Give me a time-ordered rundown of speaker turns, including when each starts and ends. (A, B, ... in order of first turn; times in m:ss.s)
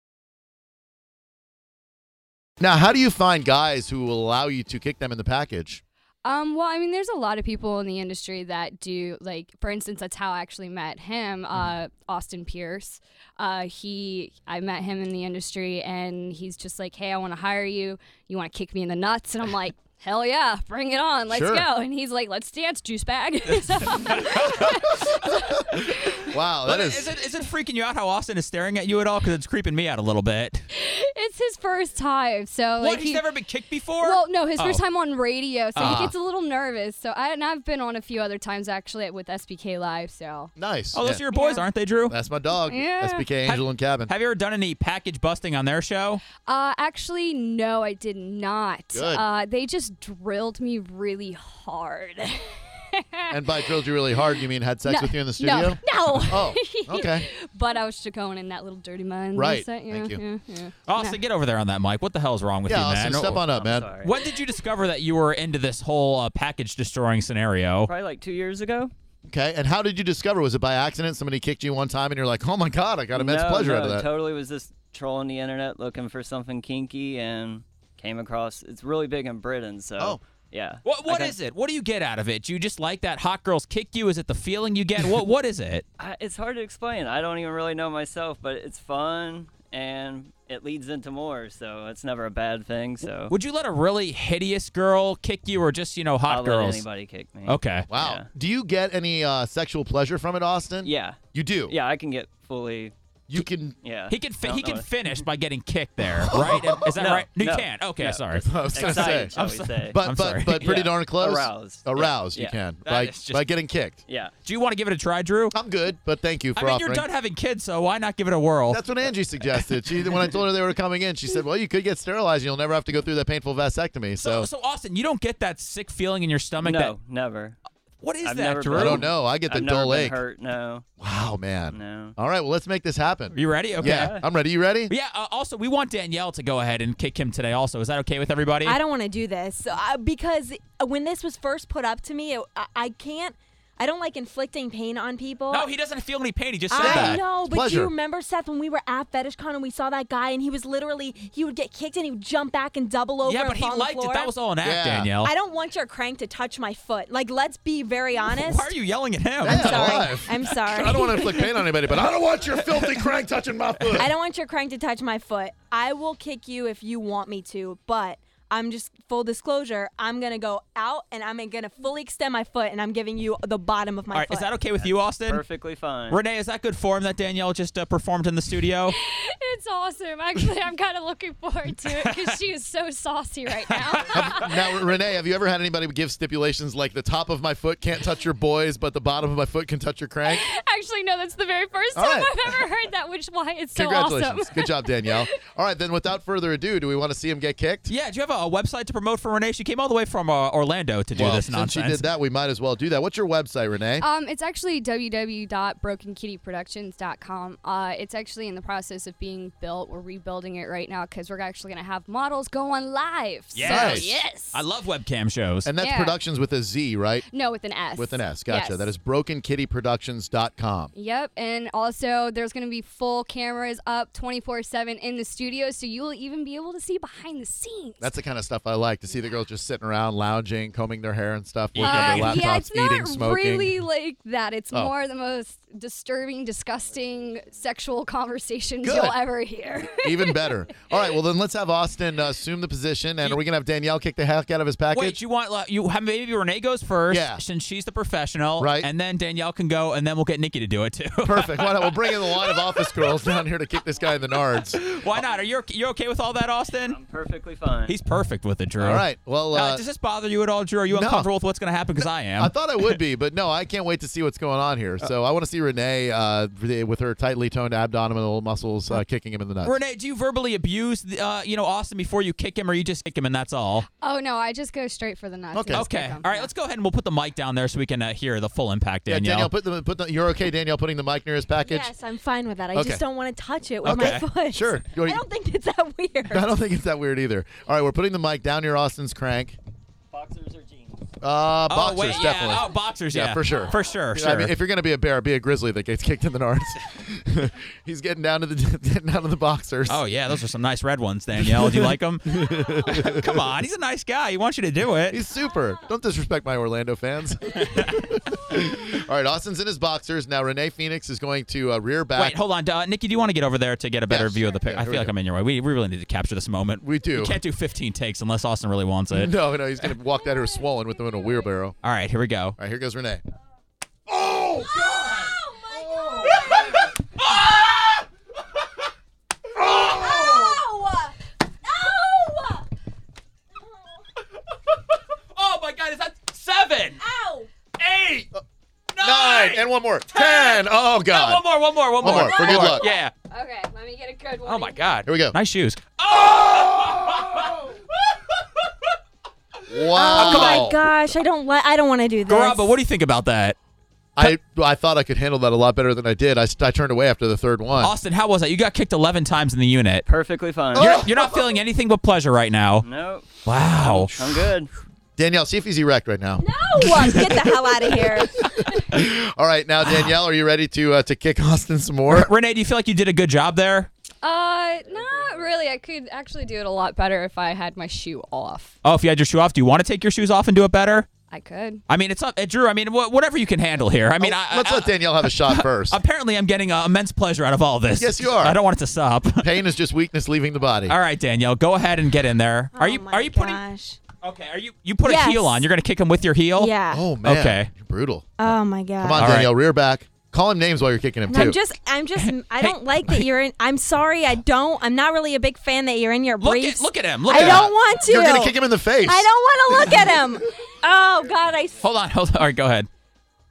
0:02.6-0:05.8 A
0:06.2-0:26.2 B
0:21.3-0:21.6 A
0:23.5-0:24.7 C
0:26.2-0:27.1 A
0:26.6-0:30.6 C
0:30.7-0:33.3 B
0:32.8-0:34.8 C
0:34.0-0:40.5 B
0:35.7-0:36.1 C
0:35.8-0:36.1 A
0:40.6-0:41.2 A
0:40.9-0:42.1 C
0:41.3-0:41.7 B
0:42.1-0:44.1 A
0:42.6-0:43.3 B
0:43.4-0:46.2 C
0:46.4-0:53.7 B
0:48.9-0:49.2 A
0:53.3-0:57.3 A
0:54.8-1:01.2 B
0:59.3-1:00.2 A
1:00.9-1:03.4 C
1:02.6-1:03.9 A
1:03.5-1:04.1 D
1:04.0-1:07.9 C
1:07.9-1:08.9 D
1:09.3-1:14.1 A
1:13.1-1:21.3 D
1:20.8-1:25.8 C
1:26.0-1:33.3 D
1:33.2-1:36.8 C
1:36.3-1:38.3 D
1:37.5-1:37.9 C
1:37.9-1:41.7 A
1:40.8-1:42.9 D
1:43.3-1:43.8 A
1:43.8-1:45.2 D
1:44.1-1:50.9 C
1:46.3-1:52.6 D
1:46.3-1:46.8 A
1:48.3-1:49.3 A
1:49.9-1:54.0 A
1:52.8-1:53.5 C
1:54.1-1:54.3 D
1:54.4-1:55.5 C
1:55.5-1:57.0 A
1:56.6-1:58.8 C
1:58.7-2:04.5 A
2:04.2-2:06.9 C
2:06.6-2:07.6 D
2:08.0-2:09.1 C
2:08.2-2:10.8 D
2:08.7-2:10.2 A
2:11.0-2:14.9 A
2:11.7-2:12.2 D
2:13.3-2:14.2 C
2:13.8-2:14.3 D
2:14.9-2:18.8 C
2:18.6-2:25.7 E
2:25.5-2:27.2 C
2:26.7-2:34.3 E
2:26.8-2:27.9 A
2:33.2-2:35.3 C
2:34.6-2:35.1 A
2:35.2-2:38.7 E
2:38.3-2:41.0 C
2:39.4-2:44.1 A
2:39.4-2:41.5 E
2:43.9-2:54.5 E
2:54.1-2:55.4 C
2:54.8-2:56.2 D
2:56.1-2:59.0 C
2:58.9-3:04.5 B
3:02.0-3:02.3 C
3:03.7-3:04.3 C
3:04.1-3:10.4 A
3:10.3-3:15.4 B
3:11.9-3:12.3 A
3:13.7-3:17.9 A
3:17.9-3:22.0 C
3:21.1-3:24.0 A
3:24.0-3:34.6 B
3:33.5-3:35.7 C
3:33.6-3:34.1 A
3:35.6-3:37.2 A
3:35.8-3:36.2 B
3:37.3-3:38.9 B
3:37.9-3:40.9 A
3:40.9-3:48.1 B
3:48.0-3:53.8 A
3:51.7-3:52.4 C
3:51.8-4:00.7 B
3:56.8-3:57.6 D
3:58.8-3:59.2 A
4:00.0-4:05.2 A
4:04.9-4:13.1 C
4:07.1-4:07.4 A
4:08.6-4:08.9 A
4:11.2-4:14.8 A
4:14.7-4:17.0 C
4:16.8-4:17.9 D
4:17.9-4:22.9 C
4:18.8-4:19.8 A
4:20.9-4:21.3 A
4:22.4-4:29.7 A
4:29.6-4:33.8 C
4:33.9-4:36.5 B
4:35.5-4:35.9 A
4:35.7-4:39.5 C
4:39.1-4:41.9 A
4:41.6-4:46.5 E
4:42.7-4:43.0 A
4:43.8-4:44.2 C
4:43.8-4:45.2 A
4:46.3-4:49.6 A
4:50.1-4:51.0 D
4:51.2-5:00.0 A
4:51.7-4:54.5 C
4:52.1-4:52.6 B
4:59.9-5:05.2 C
5:01.4-5:03.4 A
5:05.1-5:12.4 A
5:07.6-5:08.1 C
5:12.2-5:19.3 C
5:14.1-5:15.1 A
5:16.8-5:17.4 A
5:19.1-5:21.7 A
5:21.8-5:22.6 C
5:22.6-5:23.2 A
5:24.1-5:26.6 A
5:24.8-5:26.8 E
5:26.3-5:28.0 C
5:29.6-5:30.6 A
5:29.6-5:32.6 E
5:35.3-5:37.0 C
5:37.0-5:37.5 E
5:37.8-5:38.2 C
5:37.8-5:38.4 A
5:38.9-5:43.1 C
5:39.0-5:41.4 A
5:42.0-5:42.8 A
5:42.1-5:45.0 B
5:44.4-5:47.6 C
5:45.0-5:45.4 A
5:46.3-5:47.2 A
5:49.7-5:50.8 A
5:49.9-5:52.7 E
5:50.1-5:50.7 C
5:52.3-5:53.6 C
5:54.2-5:57.9 A
5:57.8-6:00.0 C
6:00.0-6:01.0 D
6:00.7-6:01.4 A
6:00.7-6:02.8 C
6:02.8-6:04.7 D
6:03.4-6:04.4 C
6:05.2-6:06.4 A
6:06.4-6:08.5 E
6:07.0-6:07.4 C
6:08.7-6:12.3 A
6:12.1-6:13.9 C
6:14.2-6:18.8 B
6:14.8-6:15.6 D
6:18.8-6:21.1 C
6:21.3-6:21.8 B
6:21.9-6:29.5 C
6:24.2-6:26.0 A
6:27.9-6:28.6 A
6:29.4-6:31.0 A
6:30.9-6:33.6 C
6:32.8-6:34.0 E
6:34.2-6:36.7 C
6:35.0-6:35.7 E
6:36.6-6:37.0 E
6:36.9-6:38.3 A
6:37.2-6:37.7 C
6:38.4-6:39.3 E
6:39.0-6:41.6 A
6:39.2-6:39.5 C
6:41.3-6:51.8 E
6:42.2-6:43.2 C
6:46.4-6:47.7 C
6:47.3-6:49.3 A
6:51.8-6:52.9 C